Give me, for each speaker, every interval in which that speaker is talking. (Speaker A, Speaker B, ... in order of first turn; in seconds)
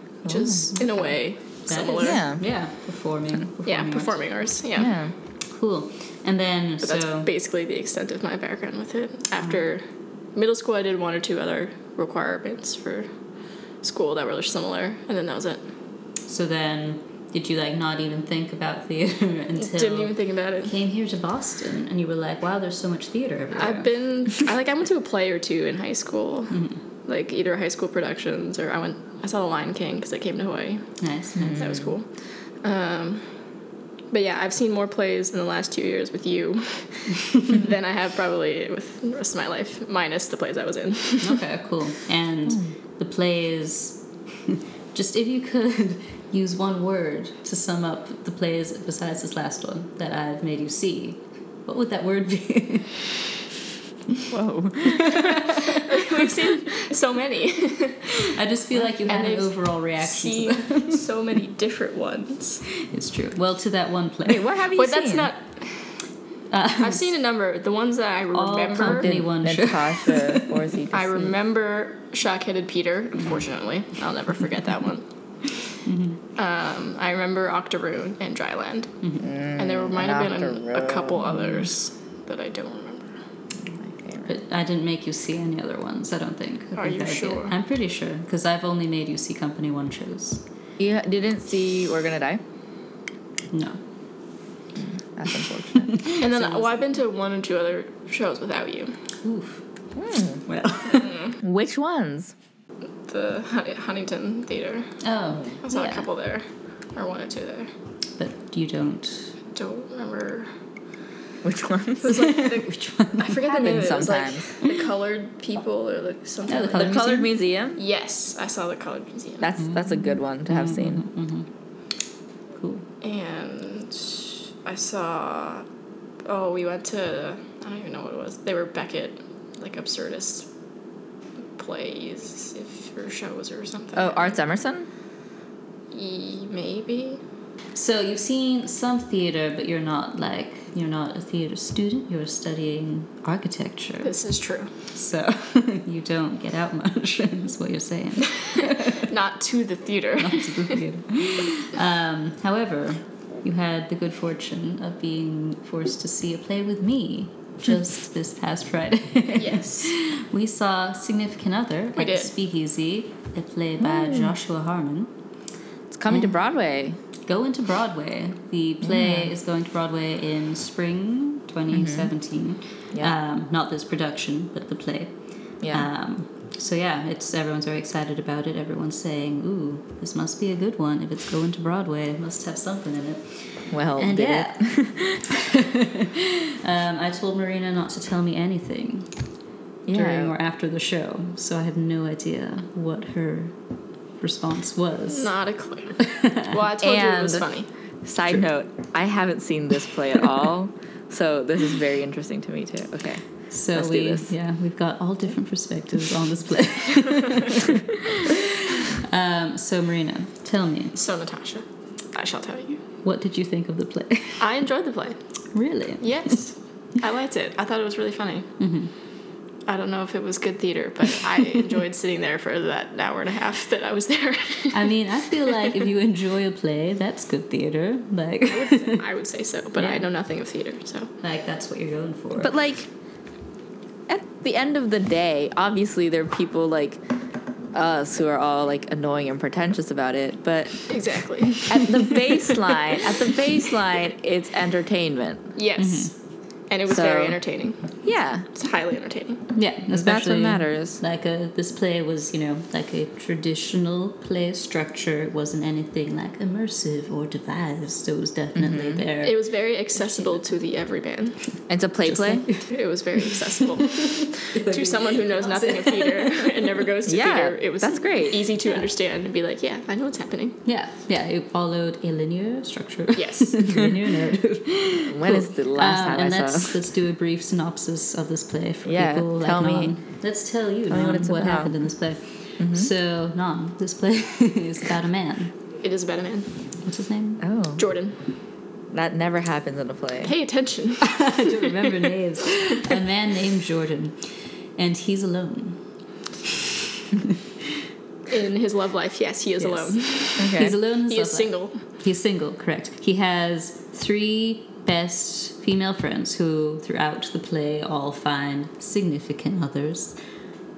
Speaker A: 0.2-2.2, 3.6-4.9, 6.8-9.8, 10.3-13.1, 13.8-15.7, 19.6-20.7, 23.5-31.0, 31.5-33.3, 34.1-41.4, 55.6-58.3, 59.0-62.6, 64.7-66.1, 66.8-69.1, 70.9-75.7, 76.3-79.0, 79.6-83.2, 86.7-87.5, 96.2-99.0, 100.9-101.4, 103.1-105.0, 105.6-107.7, 109.5-110.5, 112.0-117.1, 117.8-119.5, 123.0-125.7, 126.2-130.5, 131.6-134.4, 135.9-137.2, 144.0-144.7, 148.9-150.8, 159.3-159.9, 162.0-162.3, 195.1-197.7, 210.9-212.8, 214.4-215.2, 216.0-218.5, 219.7-224.9, 228.5-231.1, 240.9-241.9, 245.6-246.2, 246.7-249.4, 259.2-261.6, 262.6-270.6, 273.1-273.8, 285.8-286.5, 287.8-288.2, 290.2-291.7, 298.3-301.8
Speaker B: 0.2-0.7, 2.0-2.5, 4.8-5.1, 31.4-31.9, 42.5-42.7, 54.3-55.3, 64.2-65.3, 68.8-71.3, 79.2-81.3, 83.7-84.3, 90.8-92.4, 94.7-96.0, 99.9-100.4, 101.4-102.3, 105.3-105.6, 111.4-112.2, 113.5-114.5, 116.7-117.8, 119.4-121.0, 133.9-134.9, 163.8-164.3, 165.9-167.0, 168.8-169.3, 171.7-172.1, 175.6-175.9, 183.7-185.1, 189.8-190.3, 196.8-197.5, 198.0-204.3, 232.4-232.9, 234.1-237.0, 237.7-240.9, 241.6-245.5, 246.9-247.4, 248.0-248.5, 249.9-251.0, 258.6-259.0, 261.7-262.5, 267.1-268.5, 275.1-276.8, 278.8-280.0, 280.9-281.8, 282.6-282.9, 287.4-287.8, 288.9-290.3, 300.4-300.8
Speaker C: 0.7-4.2, 5.4-7.3, 9.4-9.6, 16.3-23.9, 26.5-26.8, 31.0-31.7, 41.2-53.2, 54.9-55.8, 58.2-61.0, 62.9-64.5, 66.5-67.0, 68.3-70.5, 75.8-76.2, 79.0-79.3, 81.2-81.7, 84.2-90.4, 93.5-93.8, 95.8-96.8, 99.2-99.6, 100.5-101.2, 105.0-106.1, 108.2-109.3, 112.1-113.5, 116.5-117.3, 119.6-121.5, 122.5-122.8, 137.7-144.1, 144.9-149.1, 150.2-165.1, 166.1-166.4, 167.2-189.3, 189.9-193.6, 194.2-195.3, 196.0-196.5, 203.5-210.9, 213.0-214.4, 215.5-216.4, 218.6-218.9, 224.7-229.0, 229.8-230.1, 231.2-232.5, 245.8-246.1, 249.5-260.4, 262.1-262.7, 263.9-266.5, 270.6-285.5, 286.8-287.4, 291.0-295.8, 299.6-310.2